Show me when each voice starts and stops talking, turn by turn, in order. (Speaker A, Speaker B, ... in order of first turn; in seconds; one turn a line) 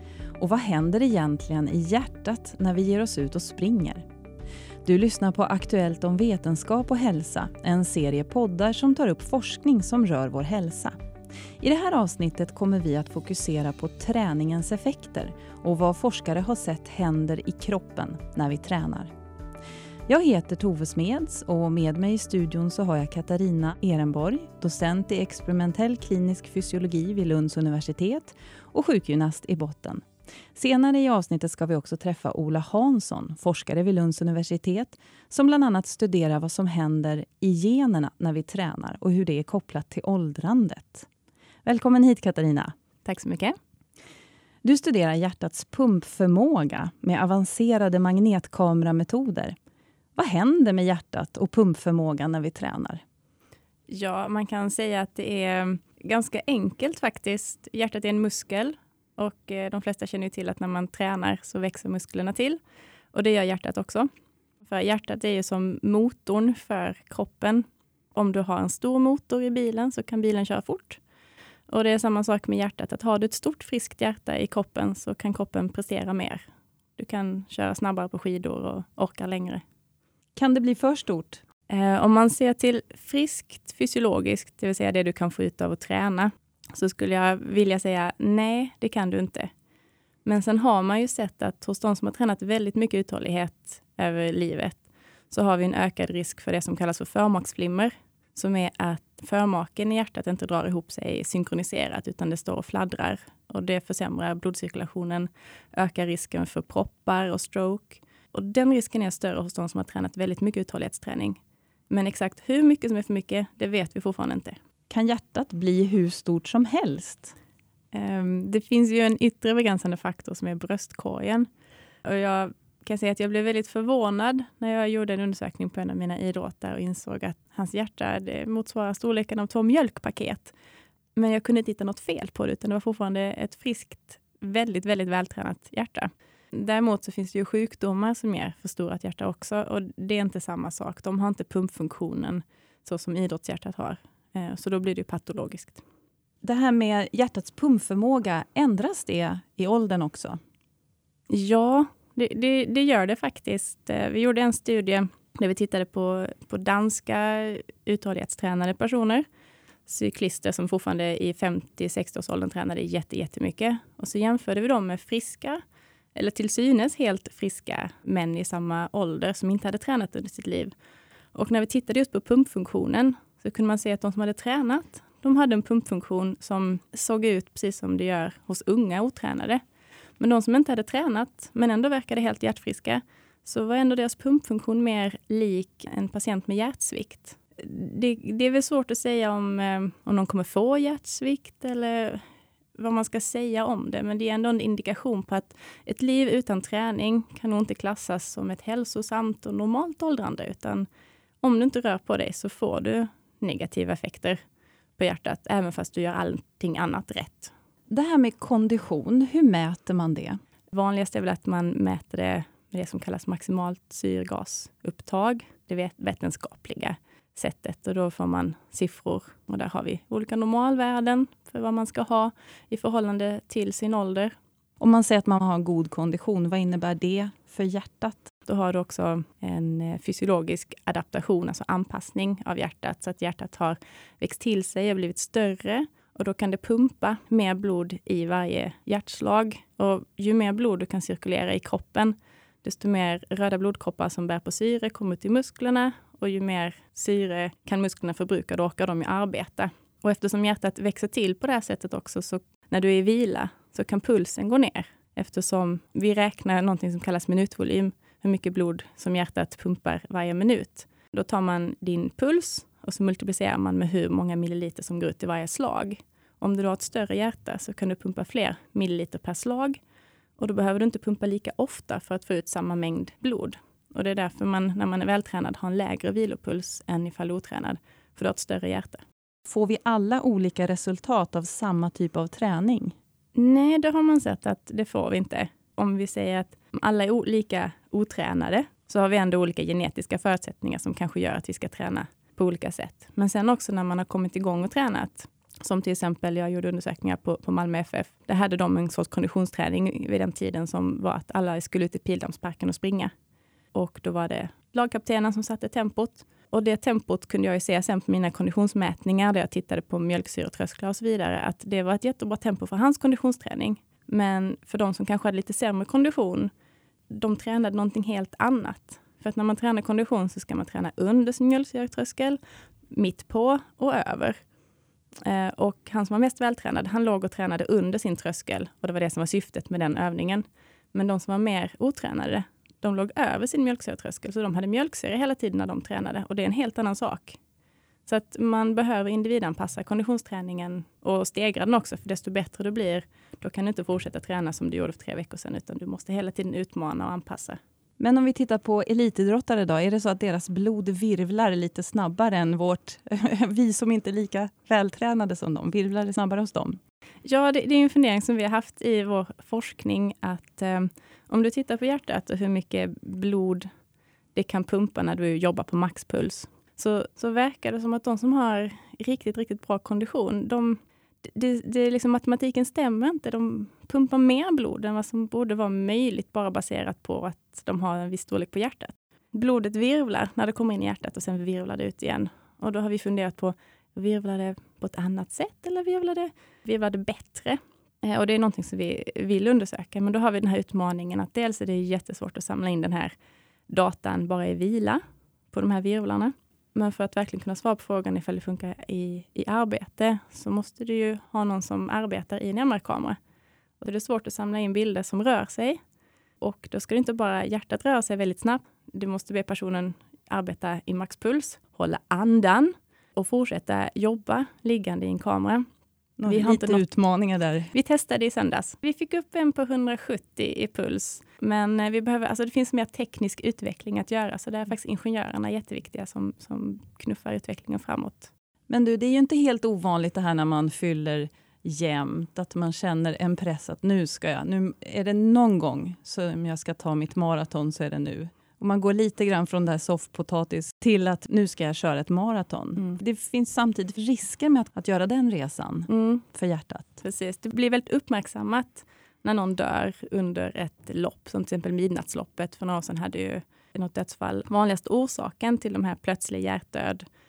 Speaker A: 0.4-4.0
Speaker A: 4.8-10.9
Speaker A: 11.6-19.1
Speaker A: 20.1-41.1
Speaker A: 41.6-42.7
Speaker B: 43.0-43.5
Speaker A: 44.6-49.5
Speaker A: 50.1-53.0
Speaker B: 53.9-62.6
Speaker B: 63.1-64.1
Speaker B: 64.6-71.0
Speaker B: 71.7-76.4
Speaker B: 77.0-79.6
Speaker A: 80.3-81.4
Speaker B: 81.7-89.5
Speaker B: 90.2-111.4
Speaker B: 111.9-114.6
Speaker A: 114.9-117.3
Speaker B: 117.9-121.5
Speaker B: 122.0-130.5
Speaker B: 131.2-145.8
Speaker A: 146.4-150.4
Speaker B: 151.3-159.2
Speaker B: 159.9-165.6
Speaker B: 166.1-170.7
Speaker B: 171.3-179.6
Speaker B: 180.2-192.2
Speaker B: 192.8-200.9
Speaker B: 201.4-204.4
Speaker B: 205.0-207.5
Speaker A: 207.9-210.4
Speaker B: 210.7-224.3
Speaker A: 224.8-228.3
Speaker B: 228.4-269.8
Speaker B: 270.4-279.0
Speaker A: 279.4-282.9
Speaker B: 283.3-303.1
Speaker B: 303.7-316.5
Speaker B: 317.1-324.4
Speaker B: 325.2-337.4
Speaker B: 338.1-347.6
Speaker A: 348.0-356.8
Speaker B: 357.2-363.7
Speaker B: 364.3-393.1
Speaker B: 393.7-395.0
Speaker B: 395.5-403.2
Speaker B: 403.8-405.8
Speaker B: 406.4-415.6
Speaker A: 416.2-417.7
Speaker B: 416.2-416.8
Speaker B: 417.7-428.3
Speaker A: 428.7-447.0
Speaker B: 445.9-446.2
Speaker B: 447.0-457.0